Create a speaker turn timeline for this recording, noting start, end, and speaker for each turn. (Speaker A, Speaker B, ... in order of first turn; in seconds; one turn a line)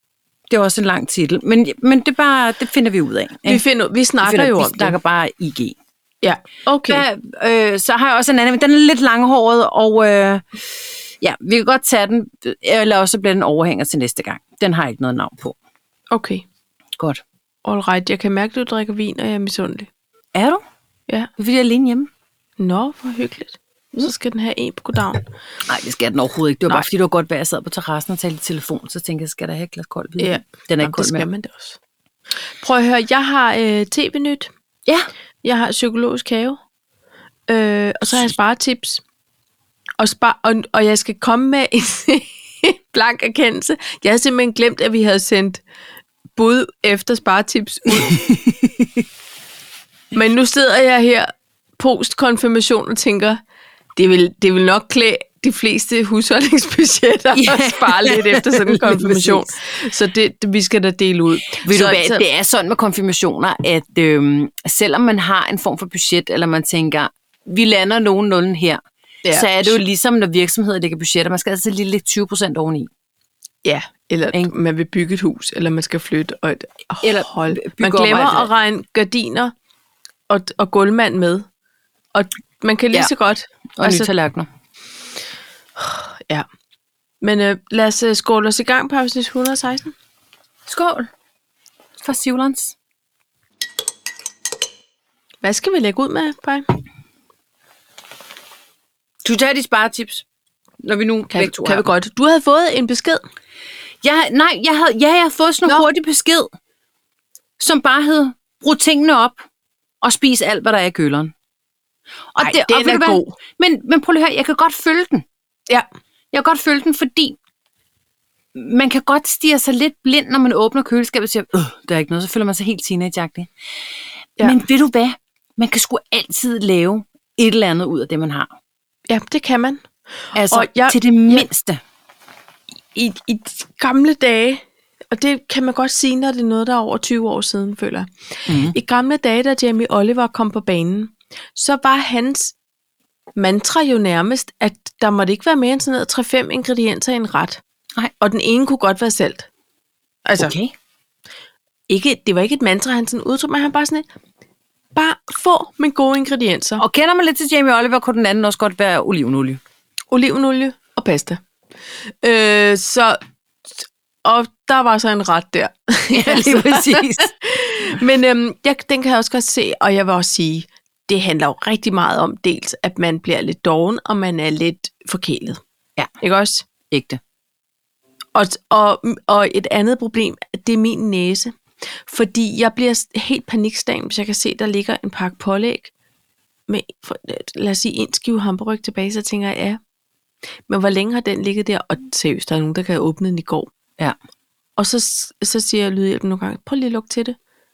Speaker A: 0.5-3.6
Speaker B: 3.5-5.0
Speaker A: 4.2-5.8
Speaker B: 6.2-7.0
Speaker A: 6.9-10.4
Speaker A: 11.2-15.6
Speaker B: 16.1-16.4
Speaker B: 17.6-19.9
Speaker A: 20.3-20.6
Speaker A: 21.4-22.1
Speaker B: 22.6-25.2
Speaker A: 25.7-31.2
Speaker B: 30.2-31.8
Speaker B: 32.6-34.5
Speaker B: 35.4-36.6
Speaker B: 37.5-39.0
Speaker B: 40.0-45.6
Speaker B: 46.4-48.3
Speaker A: 47.9-48.7
Speaker B: 50.1-53.4
Speaker B: 54.0-62.2
Speaker A: 57.3-59.5
Speaker A: 61.5-68.8
Speaker B: 69.2-69.8
Speaker A: 69.3-72.9
Speaker B: 73.6-79.5
Speaker A: 77.0-78.5
Speaker B: 80.3-81.5
Speaker B: 82.1-84.1
Speaker A: 83.8-84.5
Speaker B: 85.8-86.5
Speaker B: 87.2-89.9
Speaker A: 90.7-91.1
Speaker A: 92.0-92.8
Speaker B: 95.4-96.6
Speaker A: 99.2-100.2
Speaker A: 100.8-101.9
Speaker B: 101.3-103.2
Speaker A: 104.0-106.5
Speaker A: 107.6-109.4
Speaker A: 110.0-111.3
Speaker A: 112.3-115.2
Speaker B: 112.4-113.4
Speaker A: 116.3-117.4
Speaker A: 118.5-123.5
Speaker A: 124.4-128.5
Speaker B: 129.1-129.8
Speaker A: 130.3-131.8
Speaker B: 130.5-131.5
Speaker B: 132.9-142.5
Speaker A: 138.5-138.7
Speaker B: 143.3-147.6
Speaker B: 148.2-149.5
Speaker B: 150.2-150.5
Speaker A: 150.4-150.7
Speaker B: 151.9-154.0
Speaker B: 154.9-156.8
Speaker A: 156.8-159.6
Speaker B: 160.1-161.4
Speaker B: 162.2-163.2
Speaker B: 164.2-175.6
Speaker A: 166.1-167.3
Speaker B: 176.2-176.7
Speaker A: 176.9-177.2
Speaker B: 178.3-185.9
Speaker B: 186.7-189.8
Speaker B: 190.7-193.7
Speaker B: 194.8-197.3